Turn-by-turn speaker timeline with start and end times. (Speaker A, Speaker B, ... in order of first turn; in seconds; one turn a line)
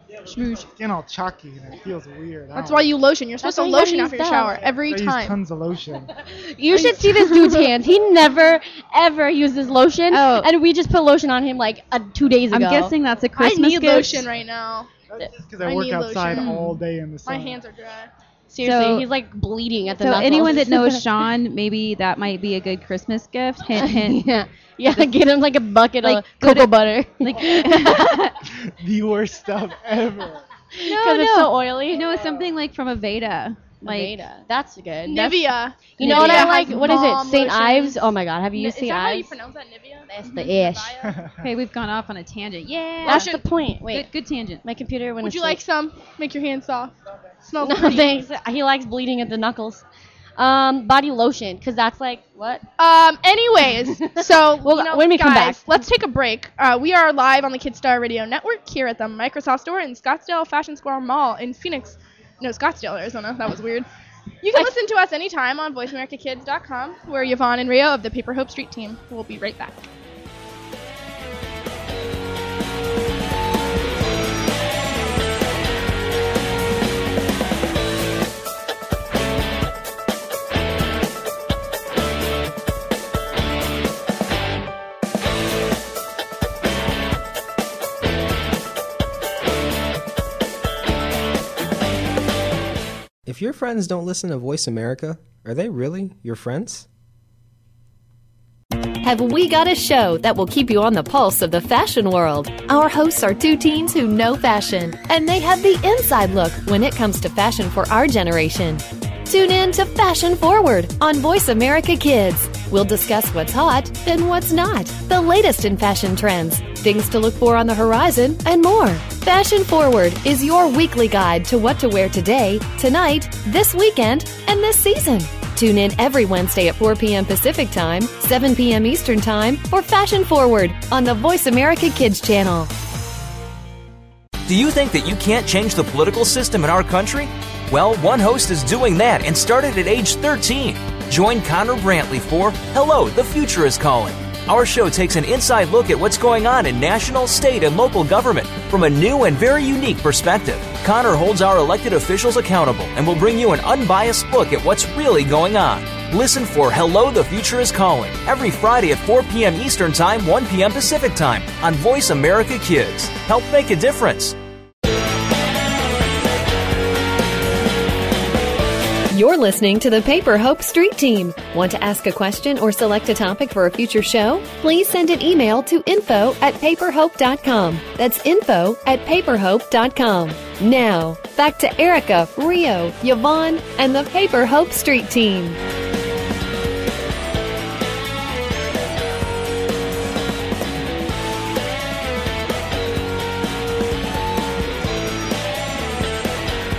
Speaker A: 0.3-0.7
Speaker B: 0.3-3.0
Speaker C: 2.5-5.4
Speaker D: 3.4-4.6
Speaker B: 4.8-6.1
Speaker D: 6.3-12.9
Speaker C: 6.7-7.7
Speaker A: 10.1-10.5
Speaker A: 12.5-14.3
Speaker C: 13.3-14.9
Speaker B: 15.1-17.6
Speaker C: 15.6-16.5
Speaker A: 16.3-16.8
Speaker C: 17.2-18.1
Speaker D: 18.5-21.0
Speaker A: 18.6-19.1
Speaker A: 20.0-24.2
Speaker D: 23.7-28.3
Speaker A: 24.9-25.1
Speaker A: 26.0-28.4
Speaker B: 28.6-30.4
Speaker D: 30.7-32.1
Speaker A: 30.8-34.2
Speaker D: 33.8-39.3
Speaker C: 35.0-41.1
Speaker A: 36.0-36.9
Speaker D: 40.1-41.0
Speaker B: 41.0-41.5
Speaker A: 41.4-43.3
Speaker C: 43.0-43.4
Speaker D: 43.0-44.1
Speaker A: 43.9-44.6
Speaker D: 44.6-45.6
Speaker C: 45.2-46.9
Speaker C: 47.4-48.2
Speaker D: 47.6-49.8
Speaker D: 50.4-52.6
Speaker C: 52.8-63.9
Speaker D: 53.9-55.8
Speaker C: 64.4-69.9
Speaker E: 93.2-96.9
Speaker F: 99.0-132.7
Speaker G: 134.5-164.3
Speaker F: 169.1-185.6